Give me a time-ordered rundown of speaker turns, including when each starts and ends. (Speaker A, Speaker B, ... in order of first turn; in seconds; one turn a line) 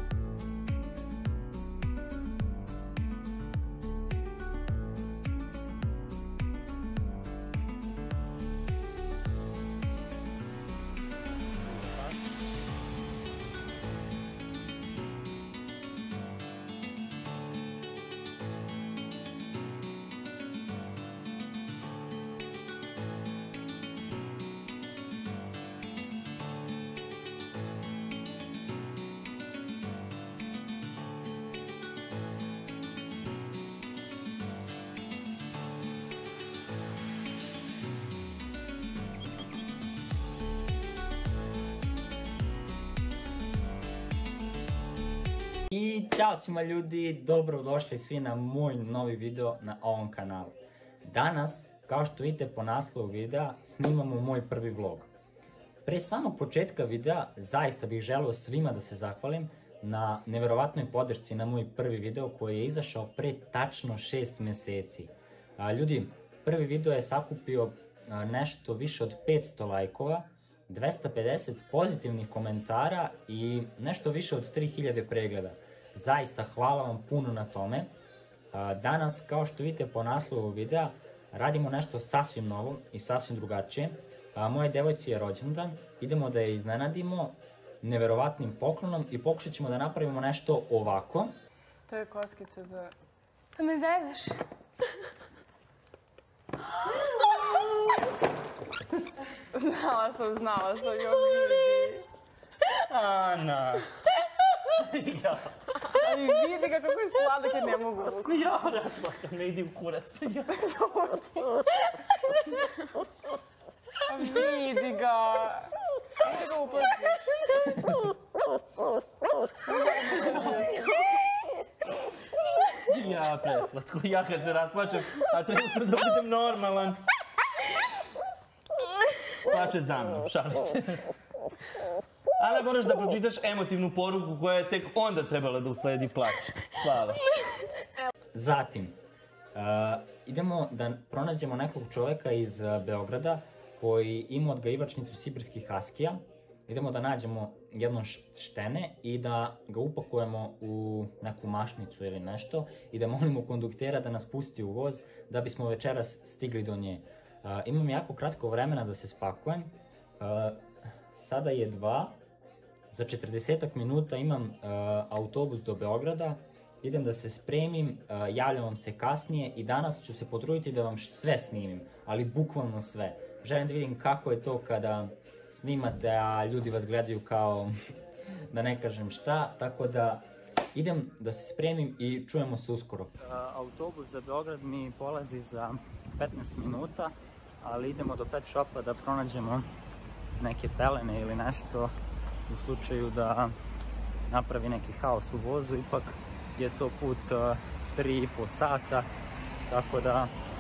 Speaker A: 11.6-12.3
Speaker A: 45.7-55.1
Speaker A: 55.8-77.9
Speaker A: 78.5-91.4
Speaker B: 91.9-92.9
Speaker B: 93.6-94.4
Speaker B: 97.0-97.5
Speaker B: 99.4-102.1
Speaker C: 102.9-103.9
Speaker C: 104.8-105.7
Speaker B: 105.9-108.4
Speaker C: 108.2-110.5
Speaker B: 110.5-111.6
Speaker B: 114.0-118.0
Speaker B: 119.7-120.8
Speaker C: 122.8-127.0
Speaker C: 129.4-131.1
Speaker C: 132.4-137.2
Speaker A: 138.3-139.0
Speaker A: 139.5-162.2
Speaker A: 162.9-177.7
Speaker A: 178.5-189.7
Speaker A: 190.4-191.9
Speaker A: 192.5-193.5
Speaker A: 194.3-199.1
Speaker A: 199.7-200.3